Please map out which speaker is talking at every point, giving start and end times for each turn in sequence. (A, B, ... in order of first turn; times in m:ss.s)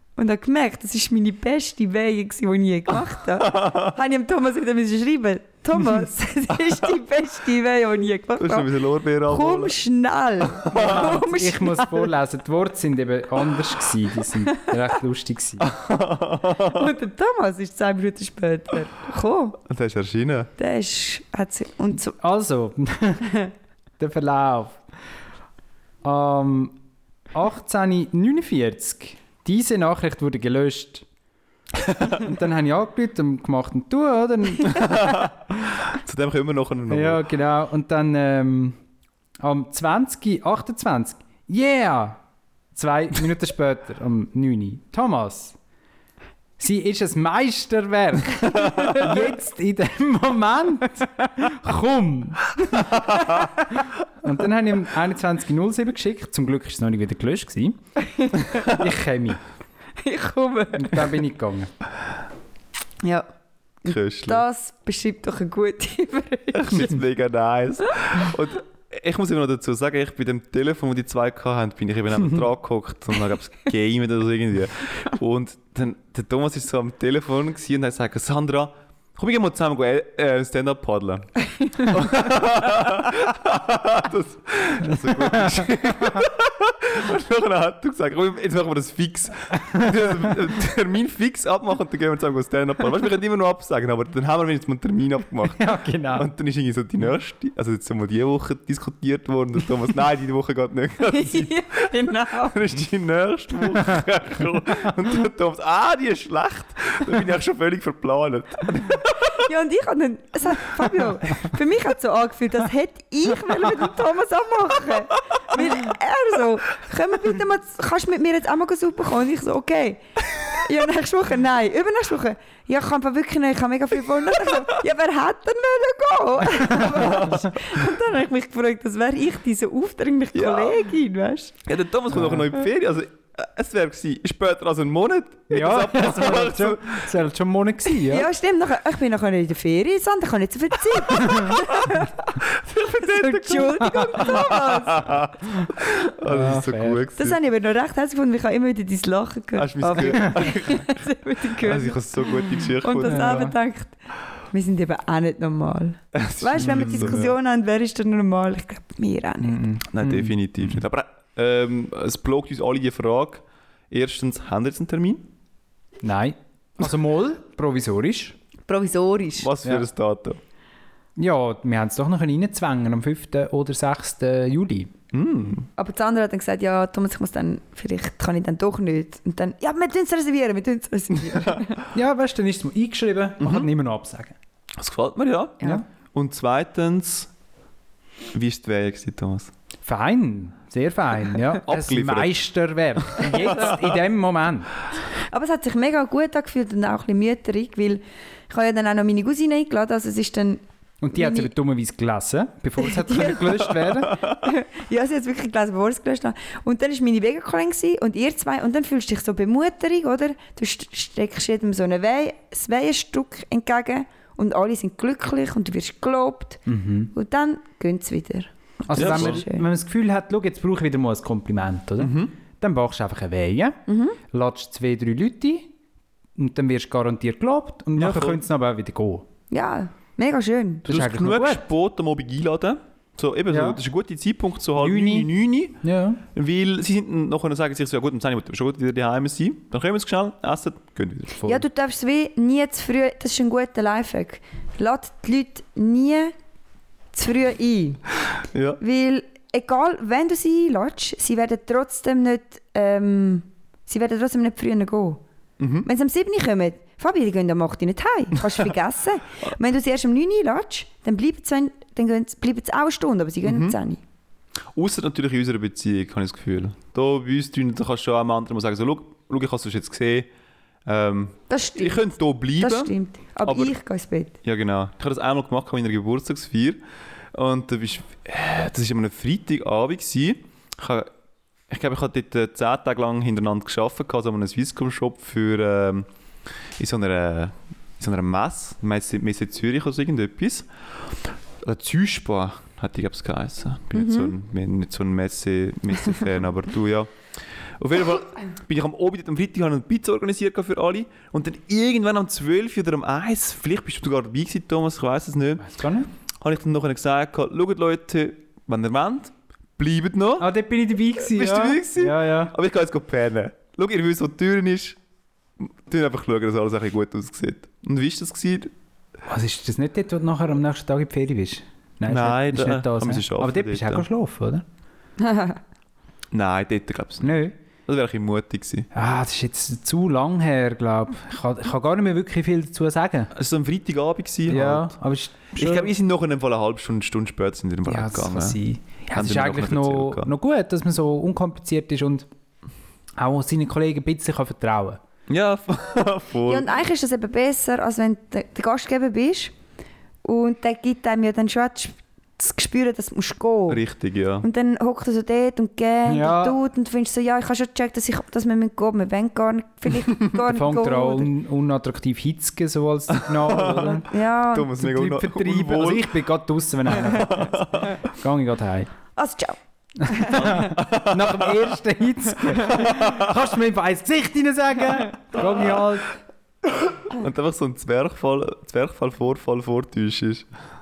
0:00.2-0:08.7 A
0:08.4-0:09.8 B
0:09.2-0:12.1 A
0:10.6-0:10.9 B
0:10.8-0:15.7 C
0:15.6-0:16.9 B
0:16.6-0:19.6 A
0:19.7-0:20.5 B
0:20.6-0:22.2 A
0:22.2-0:23.4 C
0:24.0-0:24.8 C
0:26.0-0:26.8 C
0:27.3-0:31.1 C
0:32.0-0:35.0 C
0:34.6-0:37.2 B
0:36.9-0:38.8 C
0:39.4-0:42.2 C
0:42.7-0:45.6 C
0:46.6-0:57.8 C
0:58.2-0:58.6 A
0:58.6-0:59.4 C
1:00.0-1:01.1 A
1:00.8-1:01.7 C
1:03.0-1:03.3 A
1:03.8-1:04.4 B
1:03.9-1:06.9 A
1:06.5-1:49.4 B
1:24.9-1:25.7 C
1:35.5-1:36.3 C
1:41.1-1:42.6 A
1:49.3-2:11.6 A
2:07.0-2:07.4 B
2:10.4-2:10.8 B
2:11.7-2:17.1 B
2:12.1-2:12.5 C
2:15.5-2:18.3 C
2:18.1-2:25.2 A
2:21.2-2:21.5 C
2:22.7-2:27.4 B
2:23.9-2:24.1 C
2:26.2-2:27.0 C
2:27.2-2:34.0 A
2:29.6-2:31.0 B
2:30.1-2:30.4 C
2:31.6-2:33.5 B
2:33.0-2:33.6 C
2:34.5-2:39.6 A
2:36.1-2:37.3 B
2:36.6-2:37.2 C
2:39.4-2:40.7 C
2:39.9-2:45.3 B
2:46.0-2:48.4 C
2:48.7-2:49.5 A
2:49.4-2:50.4 B
2:51.2-2:54.9 C
2:55.1-2:55.7 B
2:55.8-3:01.8 A
3:01.9-3:04.4 C
3:03.4-3:03.7 B
3:04.8-3:07.3 B
3:08.3-3:09.5 B
3:09.8-3:14.7 C
3:11.6-3:12.4 B
3:13.2-3:13.7 B
3:15.3-3:20.6 A
3:21.0-3:24.2 C
3:21.1-3:21.5 A
3:22.8-3:39.7 A
3:36.7-3:37.1 C
3:38.9-3:43.8 C
3:38.9-3:39.4 B
3:42.0-3:42.3 B
3:43.9-3:44.2 A
3:44.3-3:45.7 C
3:46.4-3:49.2 C
3:48.0-3:48.4 B
3:49.5-3:50.9 A
3:50.8-3:51.6 C
3:50.9-3:55.8 B
3:53.5-3:53.8 C
3:54.8-3:55.3 C
3:55.8-3:56.2 C
3:56.3-4:01.4 B
4:01.4-4:06.3 A
4:07.1-4:08.0 A
4:08.5-4:08.8 B
4:08.8-4:15.2 A
4:15.6-4:15.9 B
4:15.8-4:24.0 A
4:23.4-4:23.8 B
4:24.7-4:30.3 B
4:30.9-4:32.9 B
4:31.5-4:34.4 A
4:33.4-4:33.7 B
4:34.4-4:36.8 B
4:37.3-4:41.1 B
4:41.7-4:46.1 B
4:46.8-4:57.1 B
4:54.0-4:54.3 A
4:57.7-5:05.7 B
5:05.6-5:06.1 C
5:06.4-5:10.5 B
5:10.4-5:12.5 C
5:11.2-5:15.0 B
5:15.6-5:18.7 B
5:19.3-5:24.6 C
5:22.1-5:24.1 B
5:25.2-5:25.6 A
5:26.3-5:28.9 B
5:27.2-5:27.6 C
5:28.9-5:33.3 C
5:33.3-5:35.0 B
5:34.5-5:35.9 C
5:35.6-5:38.6 B
5:37.9-5:42.3 C
5:39.1-5:40.3 B
5:43.2-5:45.0 C
5:45.3-5:46.7 B
5:46.5-5:49.5 A
5:50.2-5:53.8 A
5:53.7-5:54.5 B
5:54.4-6:01.3 A
5:56.1-5:56.6 C
6:00.5-6:04.1 C
6:03.2-6:06.2 B
6:04.1-6:04.7 A
6:04.8-6:08.9 C
6:07.0-6:08.0 B
6:09.2-6:10.6 A
6:10.0-6:16.1 C
6:10.3-6:11.6 B
6:12.7-6:13.3 B
6:16.7-6:20.5 B